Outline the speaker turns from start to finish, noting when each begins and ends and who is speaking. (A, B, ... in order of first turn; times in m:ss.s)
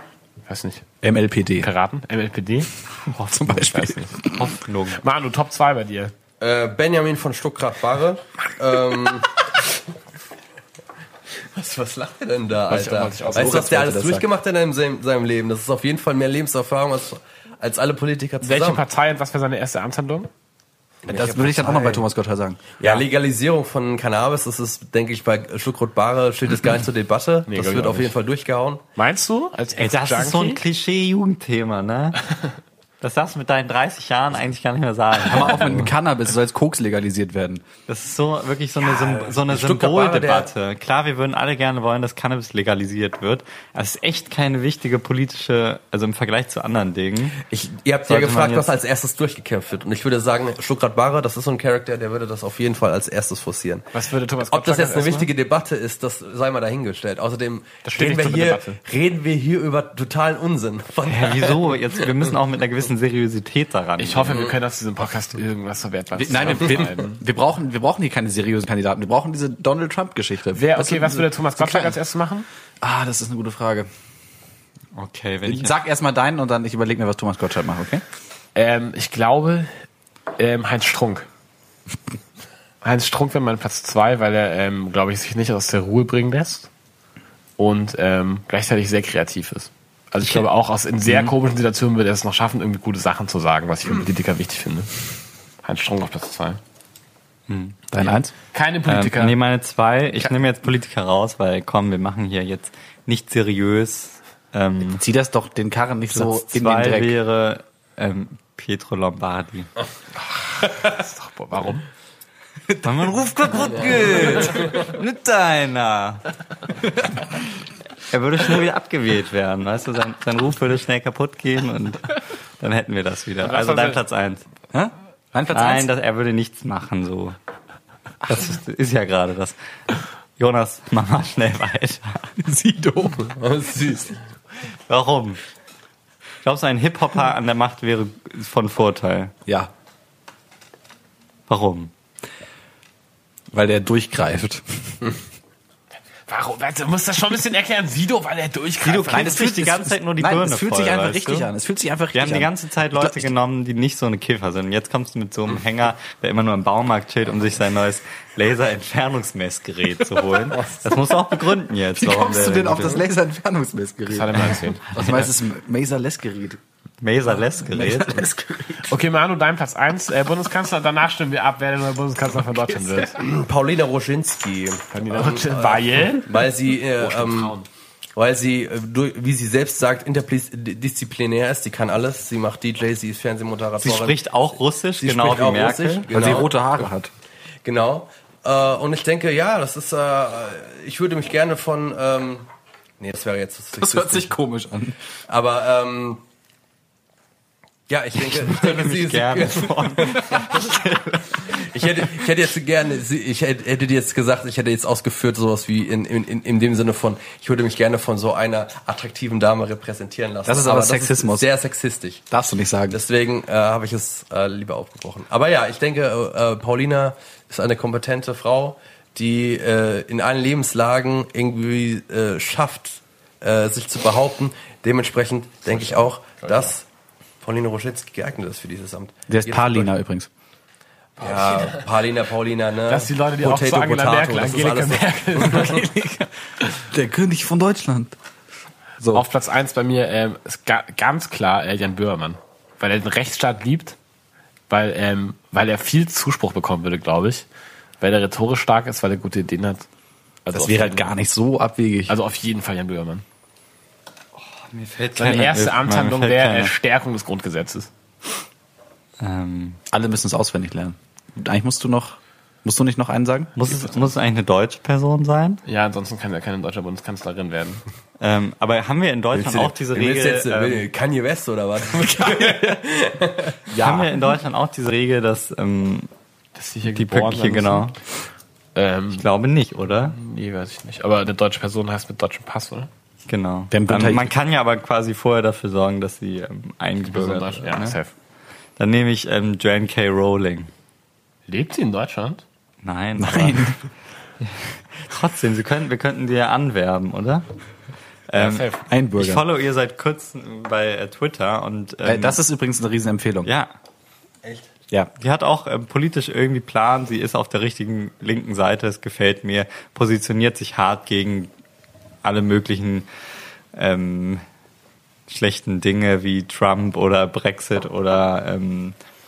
0:00.5-0:00.9 A
0:01.0-0:01.7 B
0:01.6-0:02.7 A
0:03.1-0:04.4 B
0:03.4-0:04.3 A
0:04.2-0:05.0 C
0:05.0-0:06.1 A
0:06.4-0:09.5 D
0:11.5-0:18.8 D
0:12.7-0:14.2 A
0:18.4-0:20.3 A
0:21.0-0:22.0 D
0:21.1-0:22.6 B
0:22.8-0:28.8 D
0:27.5-0:28.1 A
0:29.0-0:30.6 A
0:29.8-0:32.2 C
0:33.0-0:35.9 C
0:35.2-0:37.6 B
0:37.9-0:47.4 C
0:38.8-0:40.5 D
0:47.4-0:53.9 D
0:48.0-0:48.7 C
0:53.9-0:55.3 A
0:54.5-1:02.0 D
0:57.8-0:58.8 A
1:01.0-1:04.4 C
1:04.0-1:07.2 A
1:04.3-1:04.6 D
1:06.1-1:12.0 B
1:10.5-1:12.5 A
1:12.8-1:13.9 B
1:14.9-1:15.7 C
1:15.4-1:18.0 B
1:18.6-1:19.7 A
1:20.4-1:21.3 A
1:22.8-1:26.7 A
1:27.6-1:35.1 A
1:31.0-1:31.3 B
1:35.6-1:36.6 A
1:37.5-1:37.8 C
1:37.9-1:38.3 B
1:38.5-1:39.4 A
1:38.9-1:45.0 C
1:44.9-1:47.2 B
1:46.1-1:49.7 C
1:50.3-1:51.8 A
1:52.8-1:56.2 C
1:54.1-1:54.7 D
1:58.1-2:04.4 C
2:03.4-2:04.0 A
2:04.7-2:05.9 B
2:05.5-2:07.4 C
2:08.2-2:09.6 C
2:10.4-2:12.3 C
2:12.4-2:13.3 B
2:13.3-2:14.2 D
2:14.9-2:15.4 C
2:16.4-2:19.3 C
2:21.5-2:21.9 C
2:23.5-2:25.1 B
2:26.3-2:29.4 A
2:28.8-2:31.5 C
2:28.9-2:33.3 B
2:32.1-2:43.0 C
2:40.2-2:41.1 B
2:42.0-2:46.6 B
2:44.1-2:45.2 A
2:47.0-2:48.3 C
2:47.6-2:48.9 B
2:48.8-2:53.2 A
2:53.1-2:57.6 D
2:54.9-2:56.5 A
2:57.0-2:57.6 A
2:58.2-3:04.2 D
3:03.8-3:06.4 C
3:05.0-3:06.9 D
3:06.1-3:07.1 B
3:07.6-3:12.5 D
3:13.0-3:14.3 D
3:13.8-3:15.0 B
3:15.3-3:16.2 D
3:17.9-3:20.8 D
3:18.2-3:21.6 C
3:21.4-3:32.2 D
3:30.4-3:31.5 B
3:32.3-3:33.0 B
3:32.9-3:46.8 D
3:45.7-3:46.7 A
3:47.4-3:49.9 D
3:49.3-3:50.3 B
3:51.2-3:55.8 D
3:51.2-3:51.8 A
3:52.9-3:56.3 A
3:56.9-3:58.1 B
3:59.1-4:04.0 A
4:04.7-4:07.4 A
4:08.0-4:09.8 A
4:10.4-4:11.1 A
4:10.5-4:12.2 B
4:12.1-4:13.2 A
4:14.4-4:16.7 C
4:15.2-4:17.9 A
4:19.2-4:19.8 C
4:19.9-4:23.5 B
4:23.6-4:25.6 C
4:25.6-4:27.8 A
4:28.2-4:30.9 C
4:29.3-4:33.7 D
4:32.2-4:32.8 B
4:33.7-4:34.1 A
4:33.7-4:36.1 C
4:36.6-4:37.9 A
4:36.9-4:38.0 C
4:38.7-4:39.2 A
4:39.1-4:40.2 C
4:40.1-4:42.9 A
4:43.3-4:48.0 C
4:43.7-4:44.3 B
4:47.1-4:48.1 A
4:48.8-4:50.7 C
4:51.5-4:52.4 A
4:52.8-4:53.7 C
4:53.2-4:53.8 B
4:54.4-4:57.5 C
4:58.3-5:02.4 C
4:58.3-4:58.8 A
4:58.9-4:59.4 B
5:02.0-5:03.5 B
5:03.4-5:03.7 C
5:05.2-5:11.5 C
5:12.2-5:13.0 C
5:13.7-5:14.4 C
5:15.3-5:19.0 C